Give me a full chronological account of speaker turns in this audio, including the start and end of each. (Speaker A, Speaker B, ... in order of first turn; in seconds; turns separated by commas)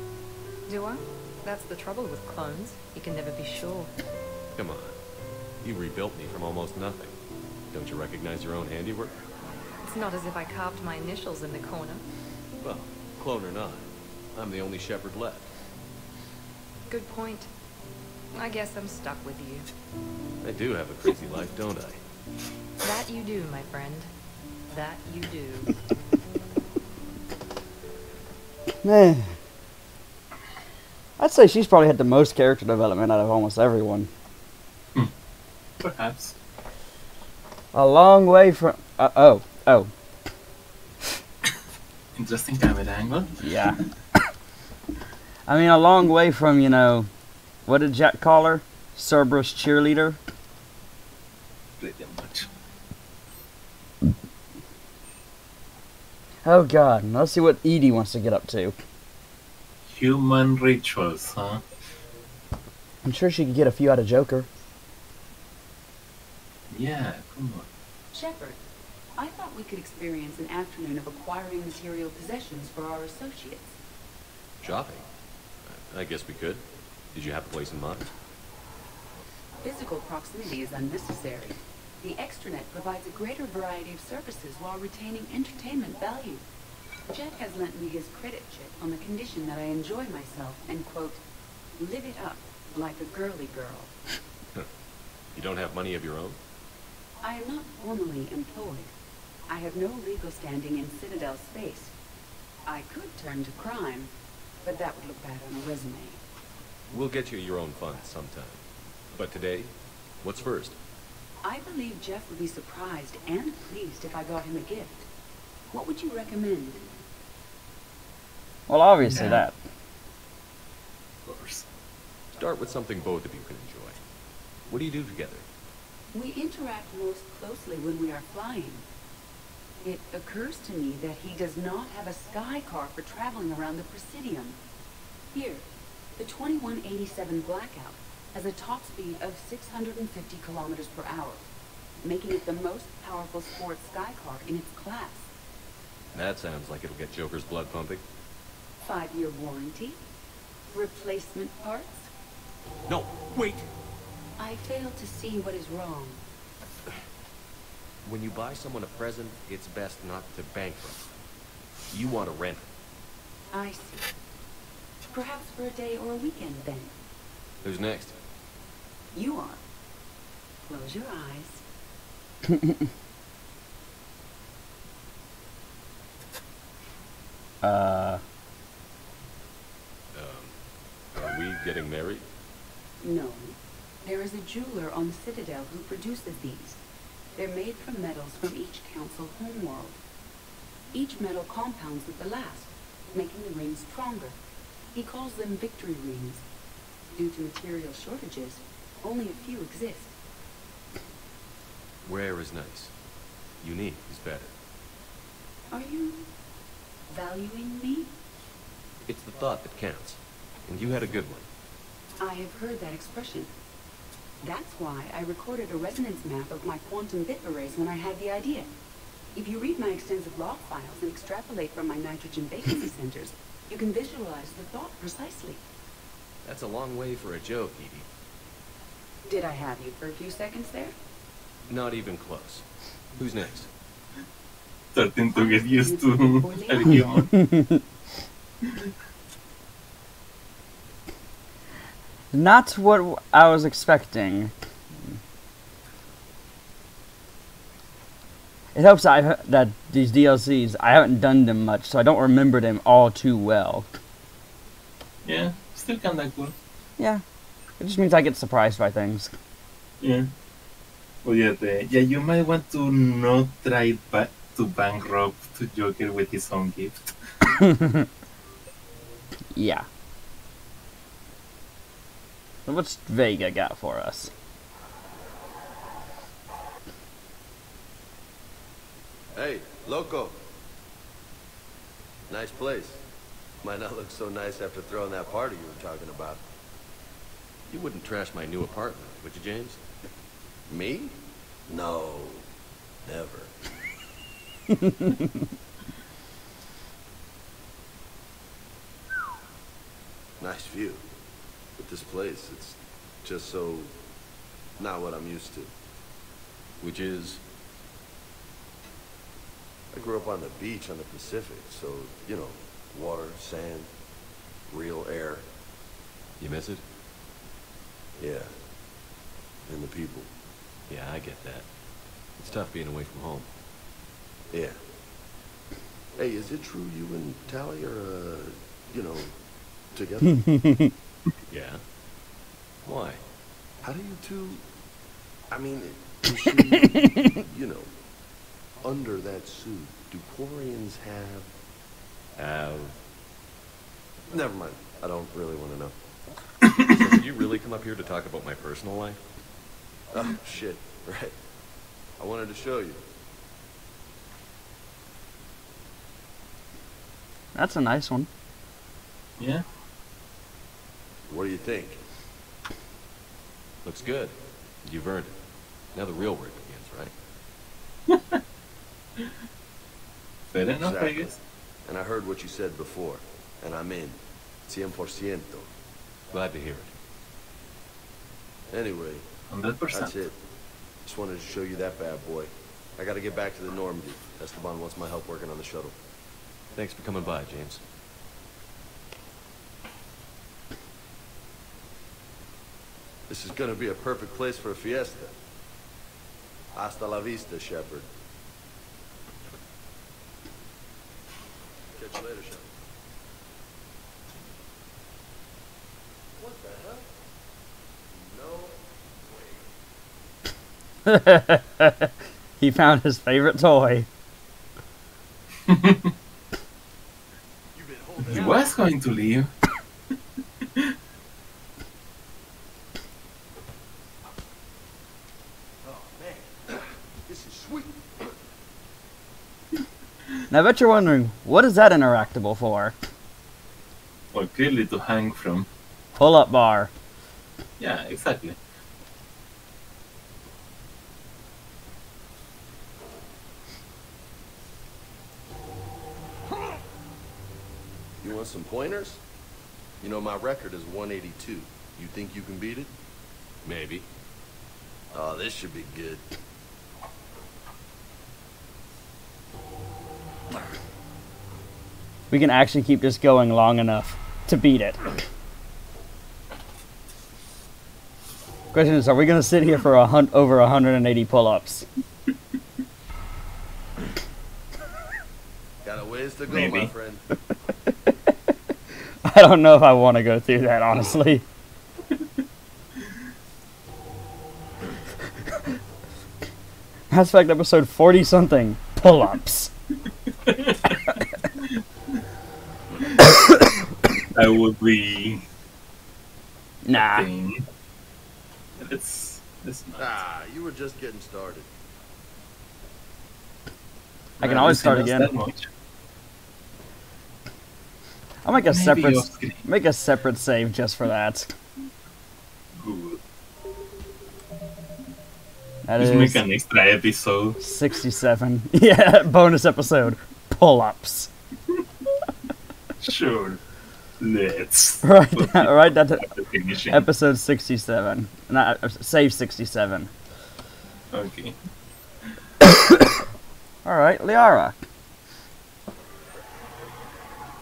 Speaker A: 0.7-3.9, Speaker B: 4.5-5.0, Speaker B: 5.6-7.1, Speaker B: 7.7-9.2, Speaker A: 9.8-12.0, Speaker B: 12.6-15.5, Speaker A: 16.9-17.5, Speaker A: 18.3-19.7, Speaker B: 20.4-22.0, Speaker A: 22.8-24.1, Speaker A: 24.7-25.7, Speaker C: 28.8-29.3, Speaker C: 31.2-34.1, Speaker D: 35.8-36.3, Speaker C: 37.7-39.9, Speaker D: 42.1-43.7, Speaker C: 43.4-43.8, Speaker C: 45.5-47.1, Speaker C: 47.7-50.2, Speaker D: 51.8-52.5, Speaker C: 56.4-58.7, Speaker D: 59.9-61.6, Speaker C: 63.0-64.5, Speaker D: 66.7-67.7, Speaker E: 68.1-68.6, Speaker E: 69.2-73.8, Speaker B: 74.6-75.0, Speaker B: 75.6-78.1, Speaker E: 79.6-86.4, Speaker E: 87.1-91.2, Speaker E: 91.8-93.9, Speaker B: 95.3-96.4, Speaker E: 97.2-98.9, Speaker E: 99.5-101.9, Speaker E: 102.7-104.1, Speaker E: 104.6-106.2, Speaker B: 106.9-108.6, Speaker B: 109.1-110.8, Speaker E: 111.4-115.1, Speaker E: 115.7-116.8, Speaker C: 118.7-119.5, Speaker D: 119.1-119.5, Speaker D: 121.2-121.6, Speaker B: 122.4-124.0, Speaker B: 124.7-125.4, Speaker E: 126.1-128.8, Speaker E: 129.8-134.6, Speaker E: 135.3-135.6, Speaker E: 136.2-141.5, Speaker E: 142.0-145.3, Speaker B: 146.1-148.0, Speaker E: 148.8-150.0, Speaker E: 150.7-152.1, Speaker B: 152.9-153.6, Speaker E: 154.4-156.2, Speaker B: 158.0-161.1, Speaker B: 161.9-162.7, Speaker E: 163.5-164.1, Speaker E: 165.1-166.9, Speaker B: 167.6-168.2, Speaker E: 169.1-169.6, Speaker E: 170.6-171.6, Speaker C: 172.5-172.8, Speaker C: 177.6-178.2, Speaker B: 180.1-180.6, Speaker B: 181.1-182.2, Speaker E: 183.0-186.8, Speaker E: 187.3-190.0, Speaker E: 190.9-194.4, Speaker E: 194.9-196.4, Speaker E: 197.1-200.1, Speaker B: 202.0-202.9, Speaker B: 203.6-204.5, Speaker E: 205.7-206.2, Speaker E: 207.1-208.1, Speaker B: 209.1-211.5, Speaker E: 212.2-213.5, Speaker E: 214.4-218.7, Speaker E: 219.3-225.6, Speaker B: 226.4-228.1, Speaker E: 229.3-230.9, Speaker B: 231.7-232.6, Speaker B: 233.2-233.7, Speaker D: 234.9-237.3, Speaker E: 235.3-237.2, Speaker C: 237.3-237.8, Speaker C: 242.3-244.5, Speaker C: 248.7-253.9, Speaker D: 255.2-256.5, Speaker C: 257.8-259.3, Speaker D: 260.0-260.3, Speaker D: 261.2-267.1, Speaker C: 267.6-268.1, Speaker C: 269.6-269.9, Speaker C: 272.6-274.3, Speaker F: 279.3-280.4, Speaker F: 282.3-283.0, Speaker F: 283.6-286.4, Speaker B: 287.7-289.8, Speaker F: 290.7-291.1, Speaker F: 291.7-292.4, Speaker F: 293.0-293.5, Speaker C: 294.8-295.3, Speaker F: 300.4-301.0, Speaker F: 301.8-303.9, Speaker F: 304.8-305.7, Speaker B: 306.8-307.4, Speaker F: 309.9-313.9, Speaker F: 314.7-315.4, Speaker B: 316.4-316.8, Speaker F: 318.2-318.5, Speaker F: 319.7-320.3, Speaker B: 320.9-321.7, Speaker B: 322.4-323.5, Speaker F: 324.5-324.8, Speaker F: 326.2-329.3, Speaker F: 329.9-330.4, Speaker C: 330.2-330.9, Speaker B: 331.5-331.8, Speaker B: 332.8-333.2, Speaker F: 333.8-334.6, Speaker F: 335.5-337.9, Speaker F: 338.8-341.5, Speaker B: 342.4-343.0, Speaker F: 344.3-345.9, Speaker B: 346.9-349.2, Speaker F: 350.1-351.3, Speaker F: 352.2-353.0, Speaker C: 357.5-358.3, Speaker D: 359.4-359.6, Speaker F: 361.3-362.0, Speaker B: 363.8-365.4, Speaker B: 365.9-367.1, Speaker D: 368.1-368.4, Speaker D: 370.5-371.4, Speaker F: 370.8-371.2, Speaker F: 371.9-375.7, Speaker B: 376.3-376.9, Speaker F: 378.7-379.2, Speaker D: 379.5-380.1, Speaker F: 379.9-380.4, Speaker F: 381.0-385.9, Speaker B: 386.7-387.8, Speaker F: 393.3-395.4, Speaker F: 396.7-398.1, Speaker F: 401.9-402.7, Speaker F: 406.4-407.1, Speaker F: 408.1-409.7, Speaker C: 411.1-414.1, Speaker D: 415.7-416.1, Speaker F: 417.7-418.8, Speaker D: 418.2-419.5, Speaker F: 425.8-428.3, Speaker C: 430.5-432.9, Speaker D: 434.3-435.7, Speaker C: 436.2-436.9, Speaker D: 437.8-438.6, Speaker F: 448.2-449.2, Speaker F: 450.0-452.9, Speaker B: 453.6-454.1, Speaker F: 455.1-456.2, Speaker C: 462.3-465.1, Speaker C: 468.7-471.9, Speaker F: 475.8-477.2, Speaker D: 476.5-476.9, Speaker C: 479.2-481.4, Speaker C: 487.1-489.7, Speaker D: 490.5-491.2, Speaker D: 493.0-493.3, Speaker D: 494.3-495.4, Speaker C: 496.8-497.3, Speaker D: 496.9-497.6, Speaker D: 498.8-500.2, Speaker F: 500.0-501.7, Speaker D: 504.4-505.7, Speaker C: 504.4-505.3, Speaker C: 508.4-511.5, Speaker D: 508.7-509.6, Speaker D: 512.8-513.2, Speaker C: 515.9-516.4, Speaker D: 516.0-517.6, Speaker C: 517.6-521.3, Speaker D: 523.0-523.6, Speaker D: 524.2-527.0, Speaker C: 525.0-526.3, Speaker C: 526.9-530.1, Speaker D: 531.1-531.6, Speaker C: 533.8-534.8